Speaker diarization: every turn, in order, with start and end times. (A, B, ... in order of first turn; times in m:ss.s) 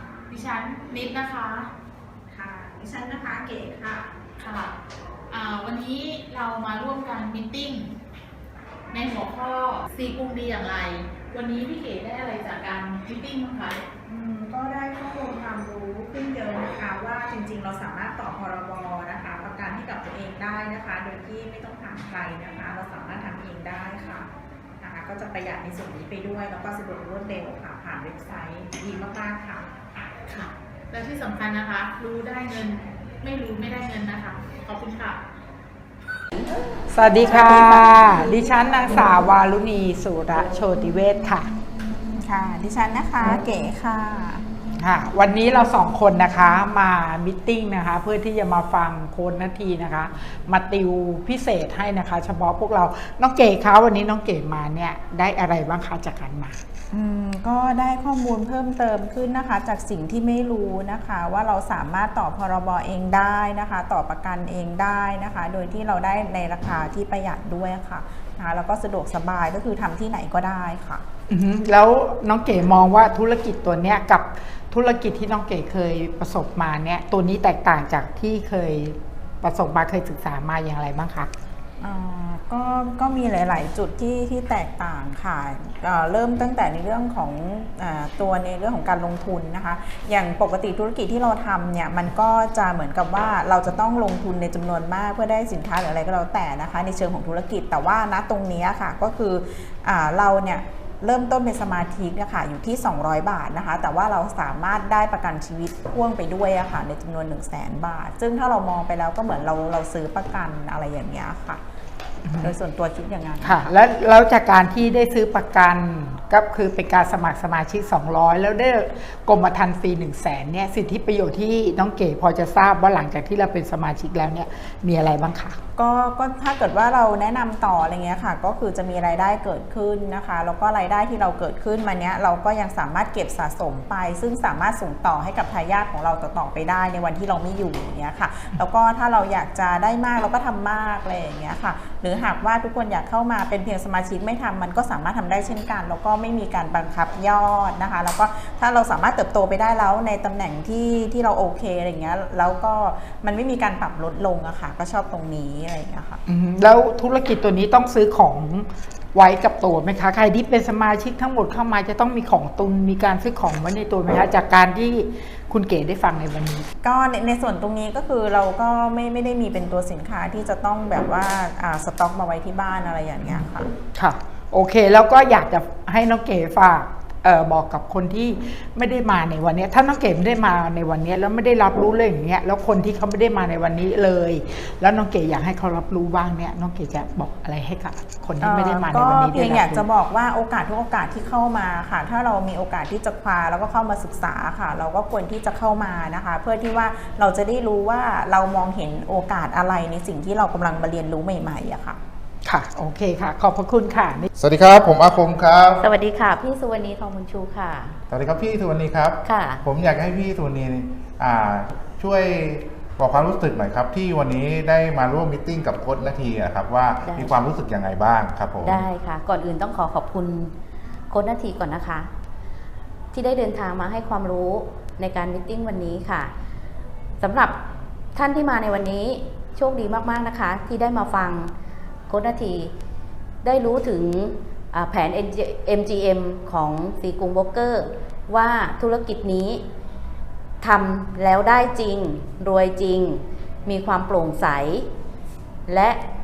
0:00.3-0:01.7 A
0:02.3-0:04.1 B
0:04.4-0:04.7 A
0:05.3-0:07.9 A
0:08.9-0:13.8 A
0:14.0-0:24.3 B
0:24.8-0:30.1 B
0:30.2-0:35.2 A
0:36.9-0:41.5 C
0:37.2-0:38.2 B
0:42.2-0:44.4 B
0:44.8-0:56.6 C
0:56.9-1:11.0 B
1:11.3-1:21.3 C
1:21.8-1:51.6 B
1:52.2-1:52.5 C
1:52.4-1:53.7 B
1:53.4-2:05.6 C
2:05.8-2:36.2 B
2:36.3-2:46.7 C
2:46.8-2:53.7 B
2:53.9-3:09.8 C
3:08.4-3:22.0 B
3:22.4-3:24.3 C
3:24.4-3:25.8 D
3:25.8-3:28.0 E
3:28.1-3:38.8 D
3:29.2-3:29.6 E
3:37.0-3:37.3 E
3:38.6-3:40.5 E
3:41.1-3:42.1 E
3:43.1-3:46.3 E
3:47.2-3:47.6 E
3:48.1-3:51.5 E
3:52.1-3:52.7 E
3:53.4-3:59.6 E
4:00.6-4:04.9 E
4:05.7-4:06.0 E